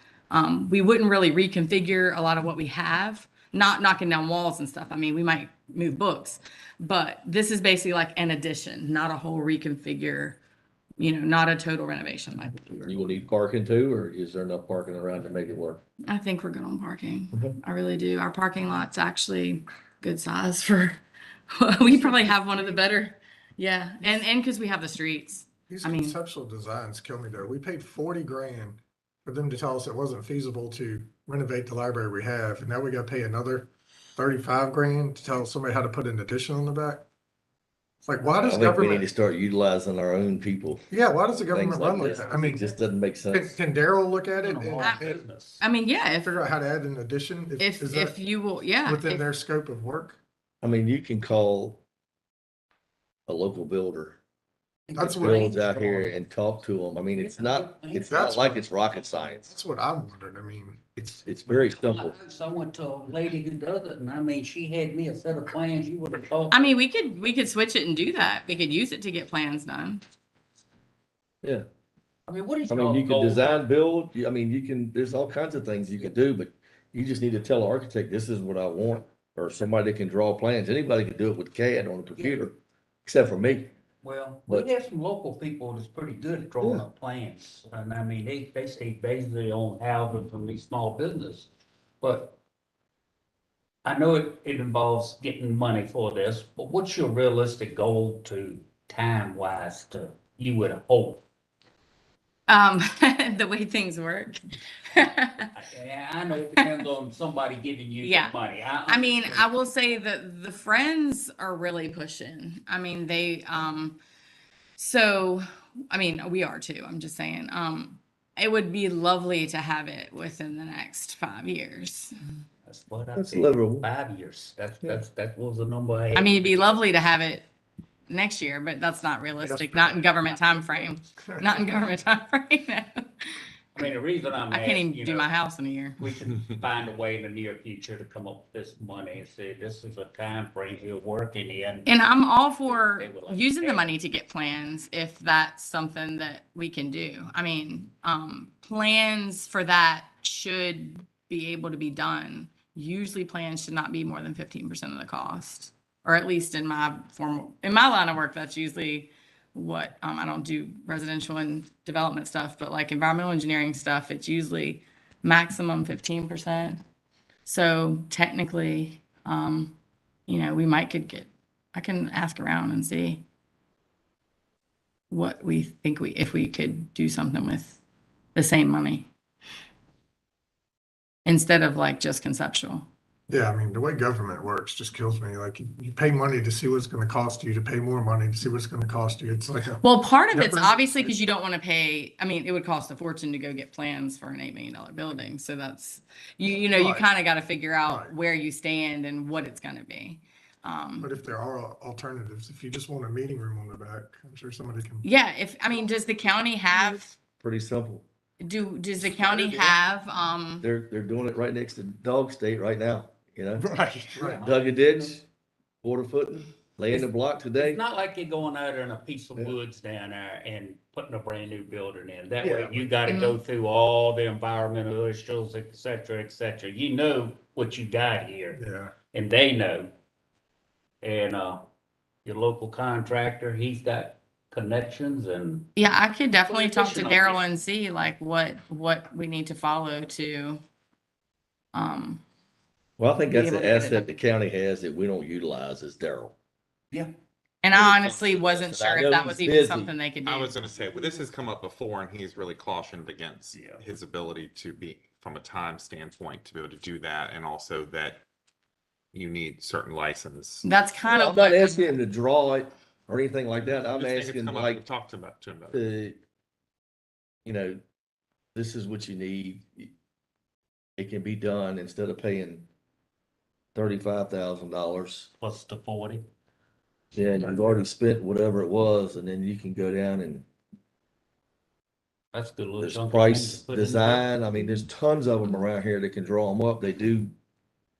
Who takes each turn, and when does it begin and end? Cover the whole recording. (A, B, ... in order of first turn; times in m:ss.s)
0:00.3-0:10.4 A
0:11.0-0:13.2 A
0:12.8-0:15.8 B
0:16.1-0:26.2 A
0:21.8-0:22.8 C
0:25.7-0:37.0 C
0:38.0-0:39.1 C
0:38.4-0:40.9 B
0:40.9-0:42.6 C
0:41.5-0:43.5 B
0:41.8-0:42.8 D
0:43.3-0:45.2 C
0:44.4-0:45.6 D
0:45.6-0:46.3 A
0:46.2-0:48.2 C
0:47.6-0:49.2 A
0:48.8-0:50.2 C
0:50.6-0:51.8 B
0:53.3-0:54.2 B
0:54.9-0:55.7 D
0:54.9-0:56.1 C
0:55.2-0:59.5 B
0:57.1-0:58.4 D
0:58.0-0:58.6 C
0:59.4-1:01.2 C
1:01.2-1:02.2 B
1:01.5-1:06.7 D
1:06.5-1:10.0 A
1:12.3-1:13.6 D
1:12.7-1:23.7 B
1:22.2-1:22.5 D
1:24.0-1:31.5 D
1:32.0-1:32.4 D
1:33.8-1:41.2 D
1:42.5-1:45.5 A
1:45.5-1:49.2 D
1:48.0-1:48.3 A
1:48.9-1:54.0 A
1:54.8-2:02.1 A
2:02.6-2:06.7 D
2:03.1-2:03.9 B
2:06.1-2:07.5 A
2:08.1-2:13.3 A
2:09.4-2:11.7 C
2:13.8-2:15.3 D
2:14.5-2:16.0 A
2:16.0-2:22.1 D
2:21.8-2:46.8 A
2:22.6-2:23.9 D
2:47.4-2:49.8 A
2:50.3-2:53.2 A
2:55.1-2:57.8 A
2:58.3-2:59.1 A
3:01.2-3:02.9 A
3:03.3-3:11.2 C
3:09.8-3:21.1 A
3:16.7-3:17.1 C
3:17.8-3:18.1 C
3:21.0-3:25.1 C
3:25.0-3:27.1 A
3:27.4-3:28.0 B
3:28.4-3:30.6 A
3:29.1-3:29.7 B
3:30.6-3:33.6 B
3:33.6-3:34.4 C
3:34.1-3:35.2 D
3:34.4-3:35.2 B
3:35.8-3:37.8 B
3:37.6-3:48.6 D
3:42.4-3:42.8 C
3:43.1-3:43.4 A
3:48.5-3:48.9 C
3:49.1-3:49.9 D
3:51.0-3:51.7 D
3:52.2-3:55.7 D
3:55.8-4:00.6 A
3:56.3-3:57.4 D
4:01.7-4:02.2 A
4:03.0-4:06.3 B
4:03.3-4:04.1 A
4:07.6-4:11.2 A
4:08.4-4:09.9 B
4:10.2-4:18.2 E
4:13.5-4:13.8 D
4:19.1-4:20.6 E
4:20.6-4:22.0 A
4:21.1-4:24.8 B
4:23.8-4:25.8 E
4:25.7-4:26.2 B
4:27.4-4:27.8 B
4:28.5-4:29.9 B
4:31.0-4:32.7 B
4:33.7-4:35.3 B
4:35.4-4:36.2 D
4:37.1-4:40.4 B
4:42.3-4:44.6 D
4:42.8-4:47.3 B